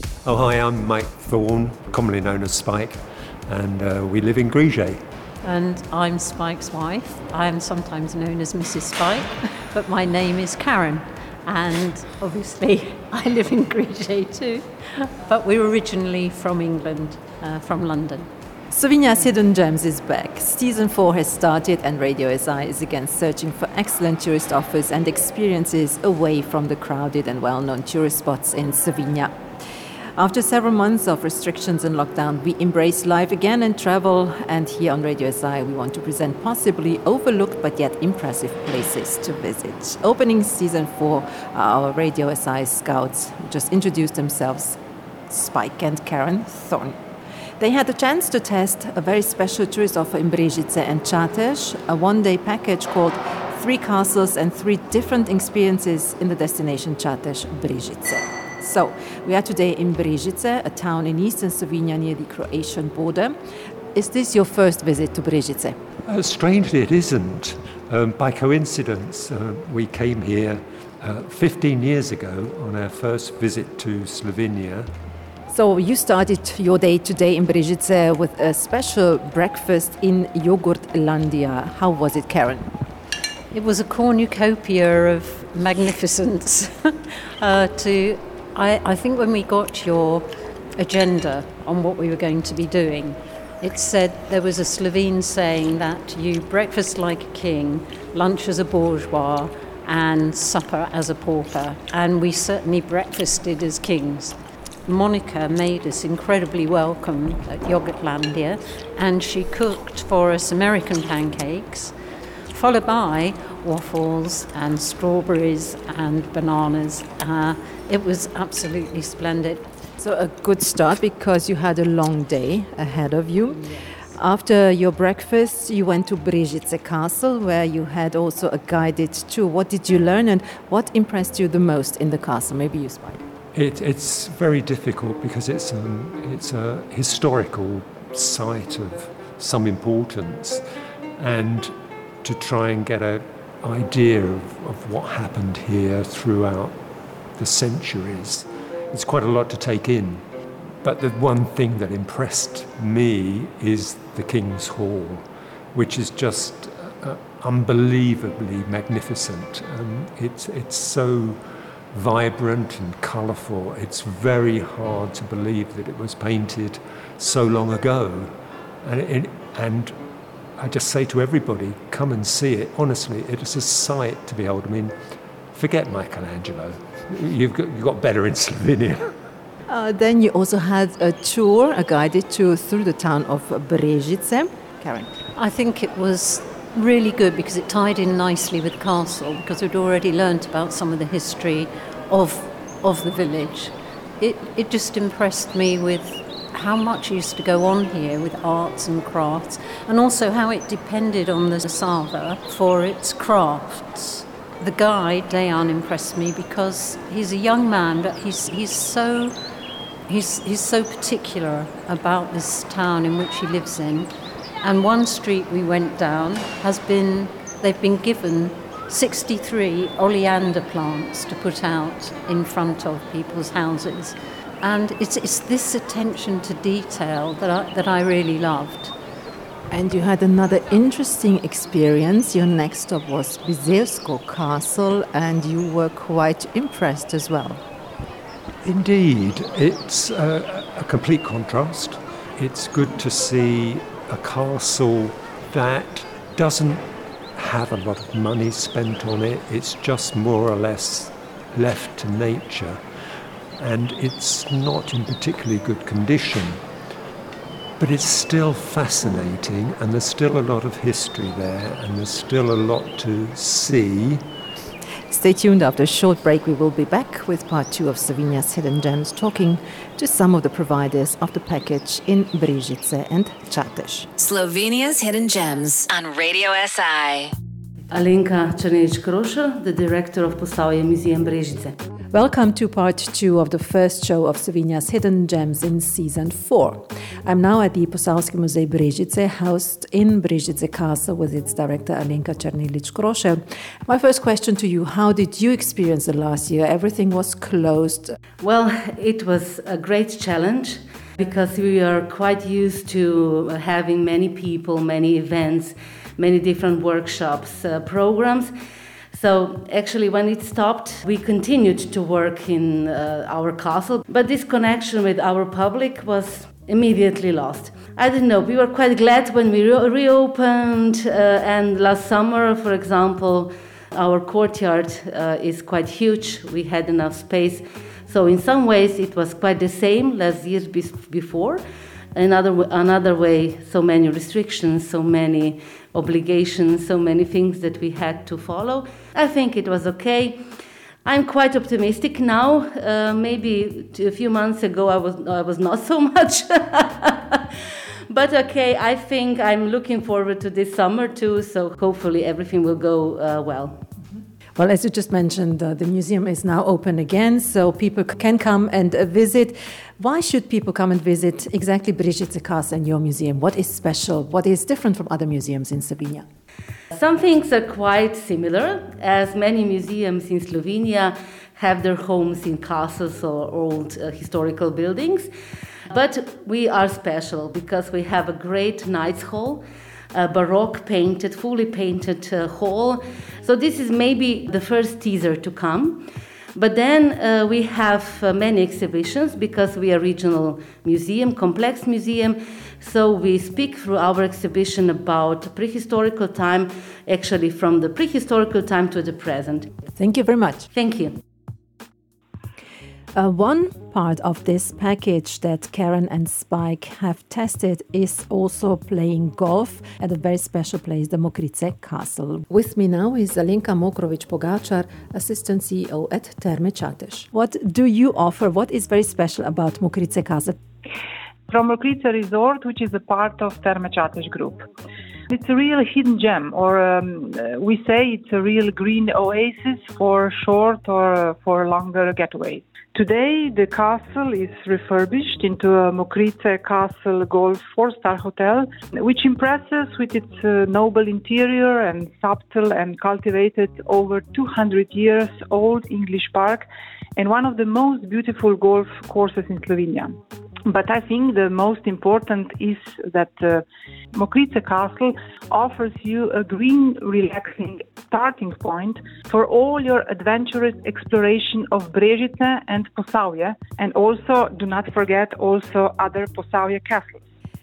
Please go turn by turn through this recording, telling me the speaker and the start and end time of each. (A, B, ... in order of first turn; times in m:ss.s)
0:00.2-0:05.0 A
0:05.4-0:18.3 B
0:18.7-0:29.3 C
0:30.2-0:44.8 C
0:45.3-0:47.0 C
0:47.6-1:03.4 C
1:03.9-1:05.8 C
1:06.1-1:14.9 A
1:15.5-1:22.7 C
1:23.5-1:51.9 B
1:52.5-1:59.6 B
2:00.0-2:13.2 C
2:13.5-2:20.6 A
2:21.2-2:21.7 A
2:22.2-2:26.7 A
2:27.4-2:30.2 A
2:30.8-2:41.4 A
2:41.9-2:48.3 A
2:48.8-2:49.9 A
2:50.6-2:54.9 A
2:55.5-2:59.1 A
2:59.7-3:05.1 C
3:05.3-3:29.3 B
3:30.1-3:48.9 B
3:49.7-3:57.6 C
3:58.6-4:06.8 A
4:07.4-4:12.8 A
4:13.6-4:16.6 A
4:17.8-4:24.2 A
4:25.1-4:34.1 C
4:34.2-4:37.3 D
4:37.9-4:41.8 E
4:42.1-4:58.1 C
4:58.4-5:08.5 E
5:09.1-5:31.6 E
5:32.1-5:40.4 E
5:41.0-5:47.5 E
5:48.1-5:53.8 E
5:54.6-6:06.2 C
6:06.9-6:15.3 E
6:15.9-6:39.7 E
6:40.0-6:40.7 C
6:40.7-6:41.1 E
6:43.1-7:00.6 C
7:01.5-7:04.6 F
7:05.3-7:26.6 F
7:27.2-7:33.6 F
7:34.1-7:47.2 F